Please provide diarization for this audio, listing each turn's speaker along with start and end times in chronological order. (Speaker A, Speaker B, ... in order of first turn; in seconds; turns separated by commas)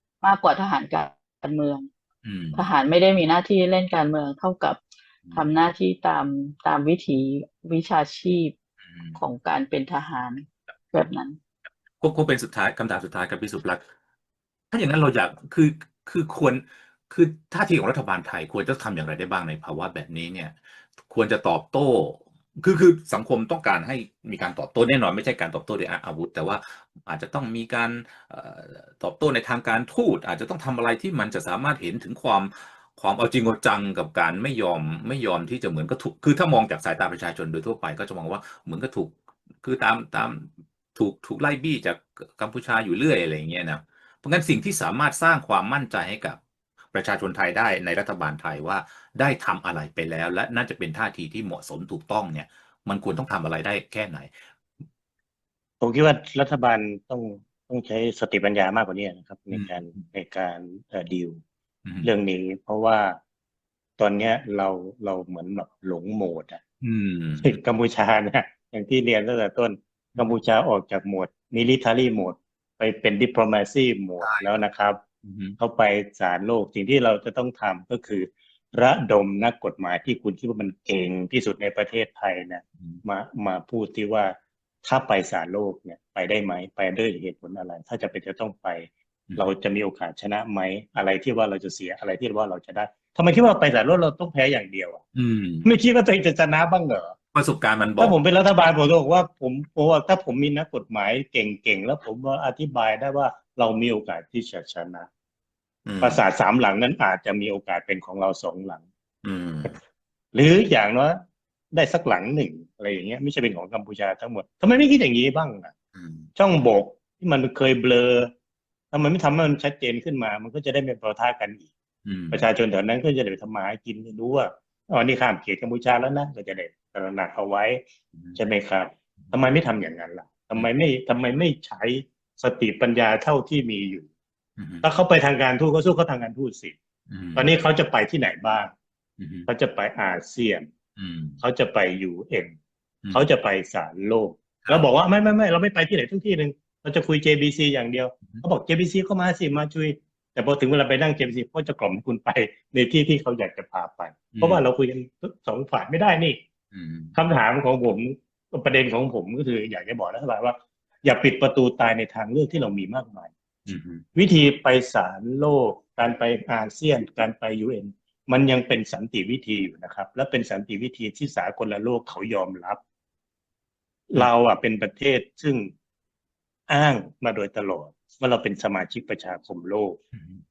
Speaker A: 0.2-1.9, Speaker B: 2.2-2.7, Speaker A: 2.5-4.8, Speaker B: 5.2-5.5, Speaker A: 5.3-8.5, Speaker B: 8.9-9.2, Speaker A: 9.1-11.4, Speaker B: 12.0-13.8, Speaker B: 14.7-46.4, Speaker B: 46.9-54.3, Speaker C: 55.8-61.4, Speaker B: 59.5-60.0, Speaker B: 61.8-62.1, Speaker C: 62.0-63.2, Speaker C: 64.0-66.6, Speaker B: 66.8-67.6, Speaker C: 67.4-75.0, Speaker B: 74.2-74.6, Speaker B: 75.2-75.6, Speaker C: 75.6-95.0, Speaker B: 95.1-95.7, Speaker C: 95.6-97.1, Speaker B: 97.3-98.2, Speaker C: 98.0-105.1, Speaker B: 105.8-106.2, Speaker C: 106.0-108.8, Speaker B: 109.2-109.8, Speaker C: 110.3-111.2, Speaker C: 111.7-115.7, Speaker B: 115.9-116.3, Speaker C: 116.3-118.3, Speaker C: 118.9-121.7, Speaker B: 122.0-122.5, Speaker C: 122.3-134.1, Speaker B: 128.1-128.4, Speaker B: 134.6-134.9, Speaker C: 134.8-136.8, Speaker B: 137.1-137.5, Speaker C: 137.3-138.7, Speaker B: 139.2-139.5, Speaker C: 139.5-140.7, Speaker B: 141.0-141.4, Speaker C: 141.4-142.6, Speaker C: 143.1-156.4, Speaker B: 154.3-154.6, Speaker B: 156.7-157.1, Speaker C: 157.1-163.3, Speaker B: 163.7-164.0, Speaker C: 164.1-172.8, Speaker C: 174.1-175.7, Speaker C: 176.7-180.0, Speaker B: 180.1-180.4